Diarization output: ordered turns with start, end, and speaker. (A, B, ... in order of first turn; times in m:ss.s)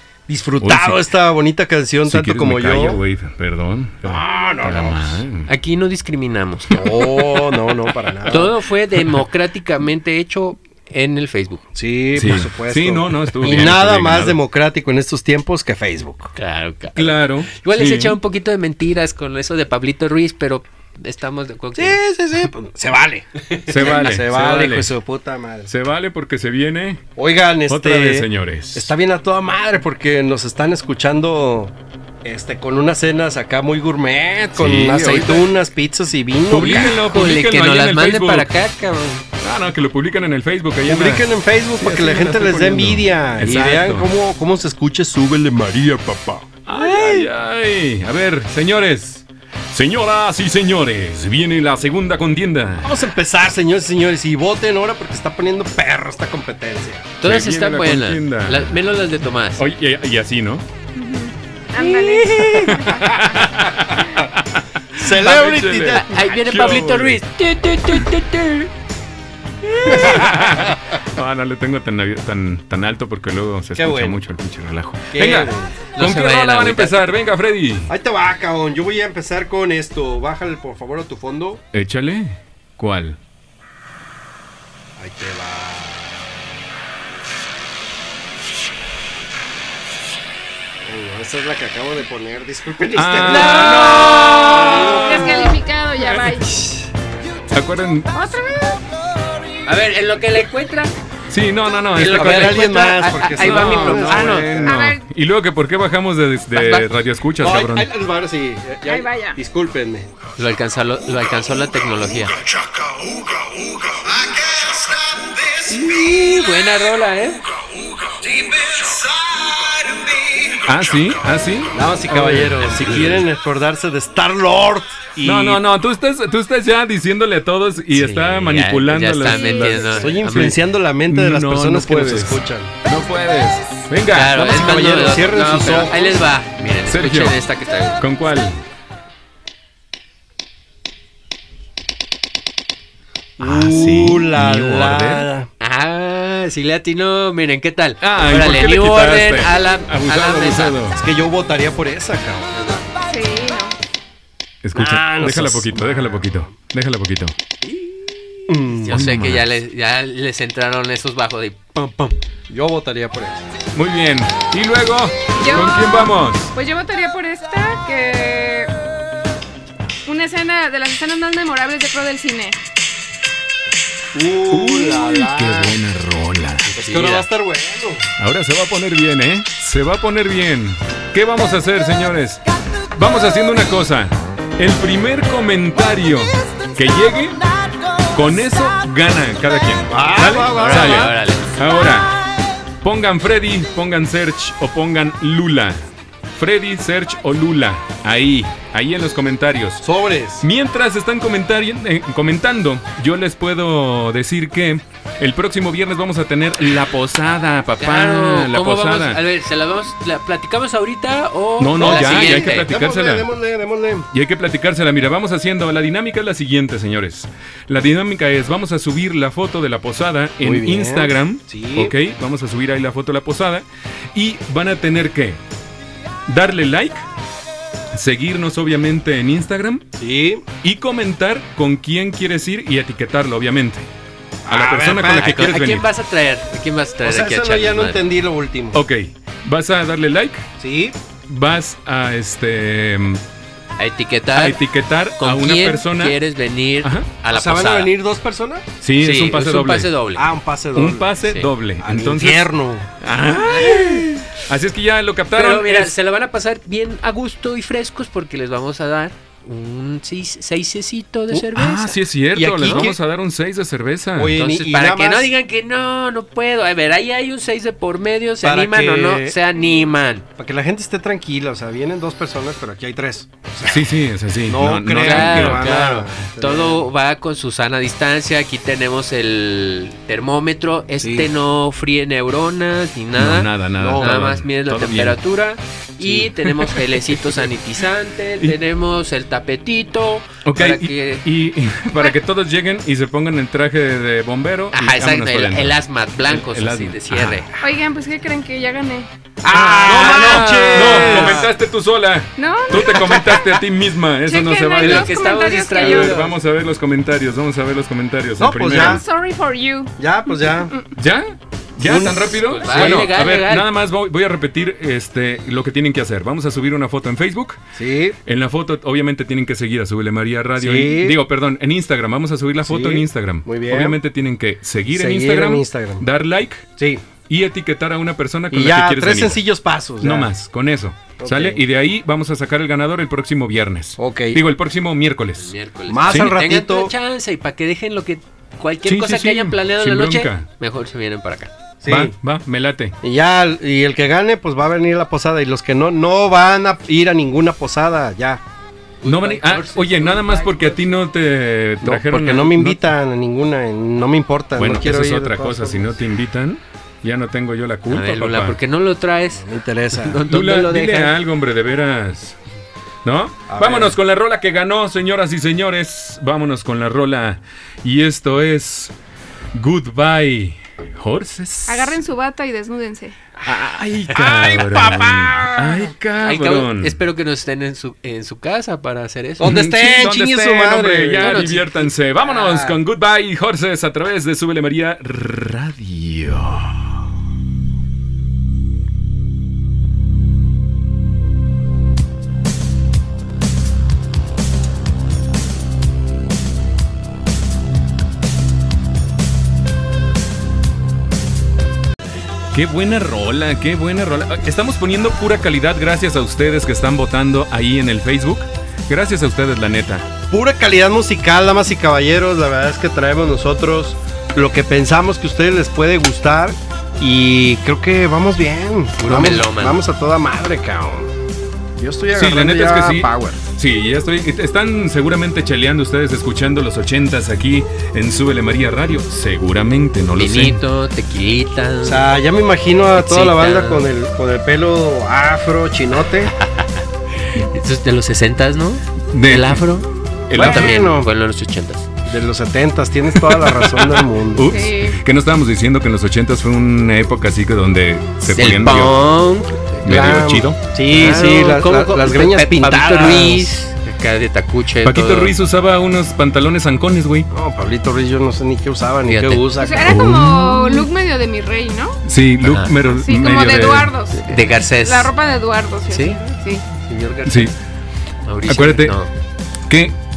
0:00.3-0:03.0 A
0:00.6-0:01.0 B
0:02.0-0:05.5 B
0:04.0-0:05.2 A
0:05.4-0:07.2 C
0:06.7-0:08.5 A
0:08.3-0:11.6 C
0:11.7-0:16.3 A
0:12.1-0:14.4 B
0:16.4-0:22.0 C
0:17.0-0:18.2 B
0:21.7-0:25.7 A
0:23.6-0:24.0 C
0:23.7-0:24.9 B
0:25.7-0:27.0 B
0:27.2-0:37.0 A
0:27.7-0:28.9 B
0:34.6-0:35.4 B
0:36.5-0:38.5 B
0:36.9-0:39.2 C
0:39.4-0:41.2 B
0:40.8-0:47.3 A
0:41.8-0:44.1 B
0:46.6-0:52.9 B
0:52.8-0:57.1 A
0:57.2-0:59.6 C
0:57.2-0:58.8 B
0:59.6-1:00.6 B
1:01.0-1:03.4 D
1:01.8-1:02.9 C
1:02.6-1:07.2 B
1:05.0-1:06.1 A
1:05.9-1:08.7 C
1:09.6-1:17.9 B
1:13.7-1:14.2 A
1:15.1-1:15.8 A
1:16.0-1:17.1 C
1:17.9-1:21.6 A
1:21.7-1:23.2 B
1:25.0-1:26.4 A
1:30.8-1:35.5 A
1:32.9-1:35.5 B
1:33.2-1:35.0 C
1:34.8-1:36.8 D
1:37.5-1:38.1 B
1:38.1-1:38.6 D
1:39.6-1:40.9 C
1:41.3-1:42.7 B
1:42.0-1:44.6 C
1:42.0-1:44.8 A
1:43.3-1:47.9 B
1:44.6-1:45.0 D
1:46.5-1:46.9 C
1:47.4-1:50.1 A
1:48.8-1:49.4 D
1:50.4-1:52.3 C
1:52.6-1:55.6 A
1:55.6-1:57.4 C
1:58.0-2:00.4 A
2:00.6-2:03.2 B
2:01.7-2:05.6 A
2:02.2-2:03.2 C
2:05.2-2:10.5 B
2:07.9-2:10.6 C
2:09.3-2:10.0 D
2:10.0-2:12.7 A
2:11.1-2:14.9 B
2:14.1-2:18.0 C
2:14.5-2:16.2 A
2:16.9-2:17.4 B
2:18.0-2:18.6 B
2:23.4-2:25.5 A
2:23.4-2:25.3 B
2:25.6-2:30.8 C
2:28.0-2:31.0 B
2:30.9-2:32.9 A
2:33.1-2:33.8 D
2:34.6-2:37.3 B
2:34.7-2:36.5 A
2:37.6-2:42.1 C
2:38.5-2:39.0 A
2:38.9-2:39.5 B
2:42.5-2:43.4 A
2:43.7-2:46.5 B
2:45.4-2:48.7 D
2:50.0-2:52.6 D
2:54.1-2:55.8 A
2:54.5-2:56.7 B
2:56.6-2:57.3 C
2:56.7-2:58.1 A
2:58.2-3:02.4 B
3:02.9-3:07.4 B
3:08.1-3:12.2 B
3:09.9-3:11.1 A
3:10.5-3:11.5 C
3:12.8-3:15.8 B
3:16.3-3:19.9 B
3:19.8-3:20.4 A
3:20.4-3:29.2 B
3:27.8-3:32.7 C
3:31.6-3:33.3 B
3:31.8-3:34.1 A
3:34.1-3:45.4 B
3:40.4-3:41.9 A
3:46.3-3:47.0 B
3:47.9-3:49.8 B
3:49.9-3:50.4 A
3:50.6-3:53.9 B
3:54.4-3:55.4 A
3:54.5-3:55.9 B
3:55.1-3:58.0 C
3:57.0-3:58.8 A
3:58.7-4:00.4 B
4:00.6-4:01.0 A
4:01.3-4:03.2 B
4:03.8-4:04.6 C
4:04.3-4:06.2 B
4:05.2-4:07.9 C
4:06.8-4:07.1 B
4:07.3-4:08.6 A
4:08.8-4:09.9 B
4:09.0-4:10.3 C
4:10.2-4:11.2 A
4:10.7-4:15.9 B
4:11.8-4:12.9 A
4:13.4-4:14.2 C
4:15.3-4:22.0 C
4:21.5-4:24.4 B
4:22.3-4:23.0 A
4:22.6-4:22.9 C
4:24.1-4:25.3 A
4:24.4-4:30.2 C
4:28.4-4:29.4 A
4:30.4-4:36.9 A
4:33.6-4:35.7 B
4:35.0-4:51.2 C
4:41.0-4:41.3 A
4:43.2-4:45.2 B
4:43.8-4:44.3 A
4:46.5-4:46.8 B
4:50.4-4:57.5 B
4:54.7-4:57.5 C
4:57.6-4:59.1 D
4:59.4-5:01.5 A
4:59.5-5:01.4 C
4:59.5-5:09.0 B
5:02.4-5:03.6 D
5:04.2-5:06.2 D
5:04.8-5:06.3 C
5:08.4-5:09.0 A
5:08.7-5:10.9 D
5:10.0-5:10.7 A
5:11.0-5:17.6 B
5:11.8-5:13.1 A
5:12.3-5:13.7 C
5:17.8-5:18.2 A
5:18.2-5:26.7 B
5:20.6-5:21.2 A
5:22.6-5:24.0 A
5:24.9-5:26.0 A
5:26.8-5:27.0 A
5:27.2-5:29.4 B
5:28.5-5:30.3 A
5:30.0-5:35.5 B
5:31.2-5:31.6 A
5:34.0-5:34.4 A
5:35.4-5:41.5 C
5:35.9-5:36.9 A
5:36.1-5:36.3 B
5:38.8-5:40.4 B
5:41.8-5:42.1 A
5:41.8-5:42.9 B
5:43.0-5:48.4 A
5:49.0-5:50.8 C
5:49.0-5:52.9 B
5:51.8-5:56.0 A
5:54.6-5:58.6 B
5:57.9-6:01.1 C
5:59.3-6:00.2 A
6:00.3-6:02.4 B
6:03.0-6:08.9 B
6:03.5-6:04.0 A
6:09.5-6:12.0 B
6:11.7-6:13.2 D
6:13.4-6:17.0 B
6:14.1-6:15.0 C
6:14.3-6:15.9 A
6:16.2-6:19.6 C
6:19.4-6:21.5 A
6:19.4-6:26.9 B
6:21.2-6:21.9 C
6:22.2-6:22.8 A
6:42.5-6:50.0 B
6:50.3-7:01.1 A
6:59.0-6:59.8 C
7:01.8-7:03.4 A
7:02.1-7:10.6 B
7:10.2-7:12.1 C
7:11.8-7:16.3 A
7:13.0-7:13.8 C
7:16.4-7:16.8 C
7:17.3-7:21.9 C
7:19.1-7:19.6 B
7:20.3-7:20.9 B
7:20.3-7:21.1 A
7:22.0-7:24.6 A
7:23.1-7:29.0 B
7:24.5-7:25.0 D
7:28.2-7:29.9 C
7:29.8-7:30.6 B
7:29.8-7:33.5 A
7:30.9-7:35.3 C
7:34.8-7:37.3 B
7:37.3-7:40.1 A
7:39.1-7:39.5 C
7:39.6-7:42.0 D
7:39.8-7:40.8 B
7:42.0-7:44.0 B
7:42.4-7:42.7 C
7:42.8-7:46.6 D
7:44.3-7:45.1 C
7:45.9-7:47.5 C
7:47.2-7:47.5 B
7:48.2-7:49.1 C
7:48.5-7:48.9 B
7:49.7-7:50.0 B